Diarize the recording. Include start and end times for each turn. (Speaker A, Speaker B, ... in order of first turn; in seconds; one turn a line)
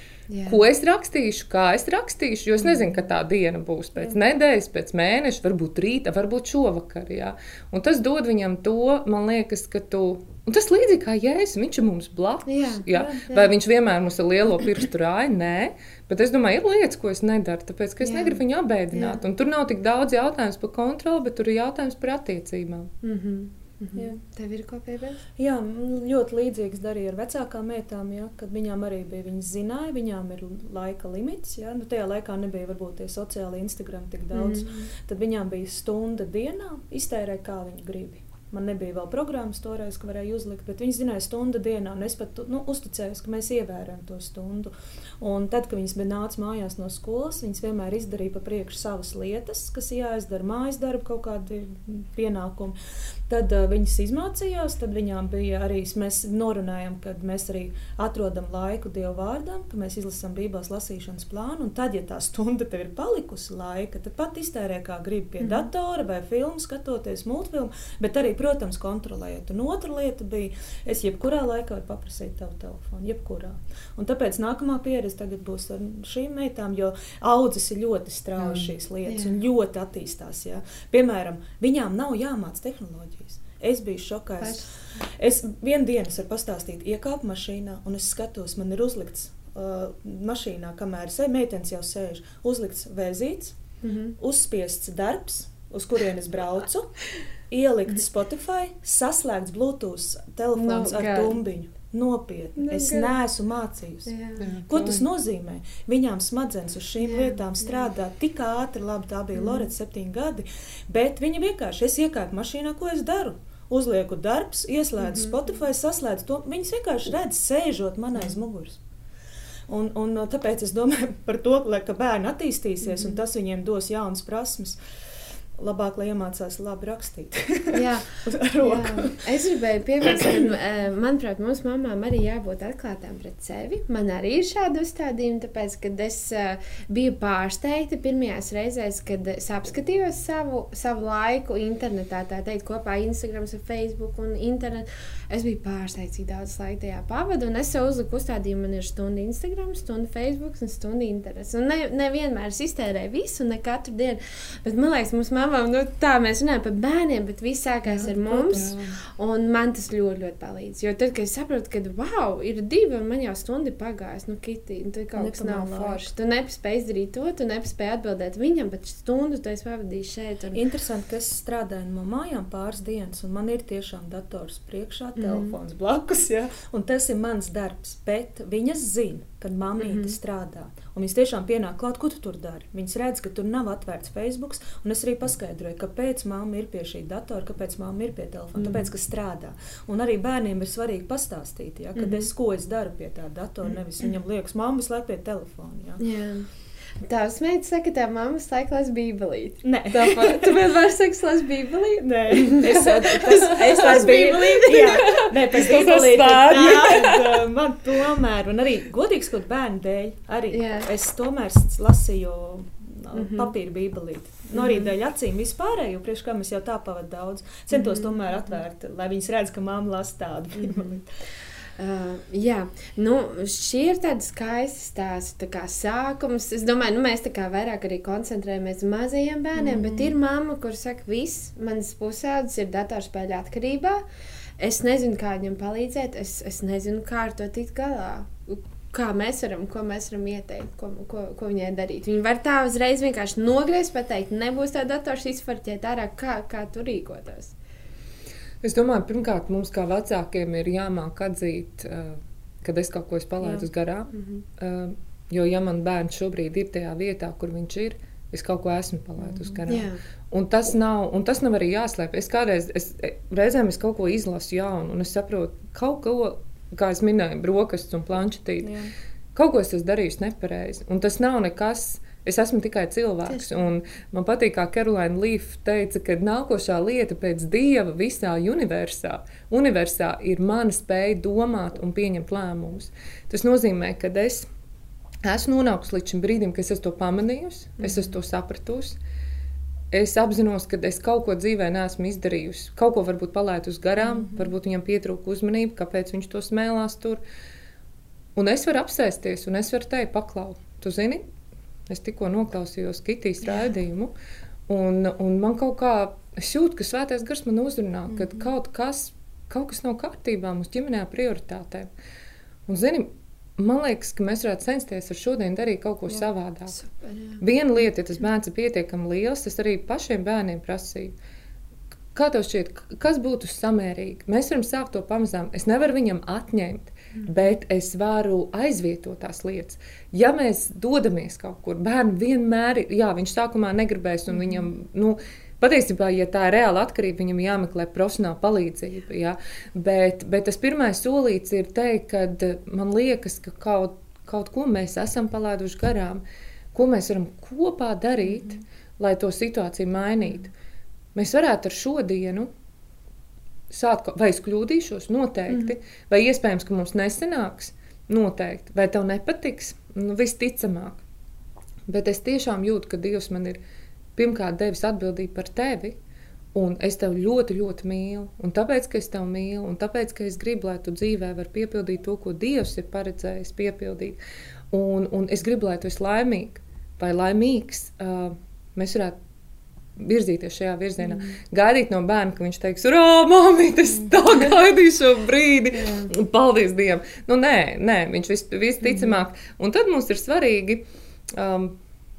Speaker A: 0.3-0.6
Speaker B: 0.5-22.9
Speaker A: 12.4-13.5
Speaker A: 18.0-18.4
Speaker A: 18.9-19.2
Speaker A: 23.0-25.2
Speaker C: 25.4-52.8
Speaker A: 34.3-34.9
Speaker C: 53.3-93.5
Speaker A: 65.4-65.7
Speaker A: 78.4-79.4
Speaker A: 93.8-94.1
Speaker C: 94.2-97.0
Speaker C: 97.5-104.1
Speaker A: 100.6-101.4
Speaker A: 102.6-103.1
Speaker A: 104.0-104.5
Speaker B: 104.4-105.0
Speaker C: 104.7-118.8
Speaker A: 107.0-107.8
Speaker A: 109.3-109.7
Speaker A: 115.0-115.4
Speaker C: 119.7-124.8
Speaker A: 122.8-123.2
Speaker C: 125.6-129.2
Speaker A: 127.7-170.6
Speaker C: 157.9-158.9
Speaker C: 165.2-166.1
Speaker C: 170.5-196.0
Speaker A: 175.2-175.6
Speaker A: 179.8-180.2
Speaker A: 188.6-188.9
Speaker A: 192.0-192.3
Speaker A: 193.6-194.1
Speaker A: 196.0-196.5
Speaker A: 197.0-205.3
Speaker C: 199.6-200.6
Speaker C: 202.0-221.0
Speaker B: 204.8-207.4
Speaker A: 210.5-210.9
Speaker A: 213.1-213.5
Speaker A: 214.5-214.9
Speaker A: 217.7-218.6
Speaker A: 220.6-221.0
Speaker A: 221.8-234.0
Speaker C: 229.6-230.1
Speaker A: 234.6-247.5
Speaker B: 248.6-268.7
Speaker A: 253.4-254.4
Speaker C: 259.3-259.6
Speaker A: 259.7-260.0
Speaker C: 268.6-268.9
Speaker B: 269.3-284.5
Speaker A: 273.3-273.5
Speaker B: 285.2-289.0
Speaker A: 287.8-288.1
Speaker B: 289.9-297.2
Speaker B: 298.4-301.2
Speaker B: 301.9-304.1
Speaker B: 304.7-311.9
Speaker A: 308.1-308.5
Speaker B: 312.7-316.7
Speaker A: 316.1-317.4
Speaker B: 317.4-321.1
Speaker B: 322.1-346.2
Speaker B: 346.7-350.5
Speaker B: 351.1-352.5
Speaker B: 353.7-361.0
Speaker B: 361.9-363.6
Speaker B: 364.1-366.0
Speaker B: 366.5-374.2
Speaker B: 374.7-379.2
Speaker B: 380.0-391.8
Speaker A: 381.0-381.4
Speaker A: 385.7-386.1
Speaker A: 388.8-389.1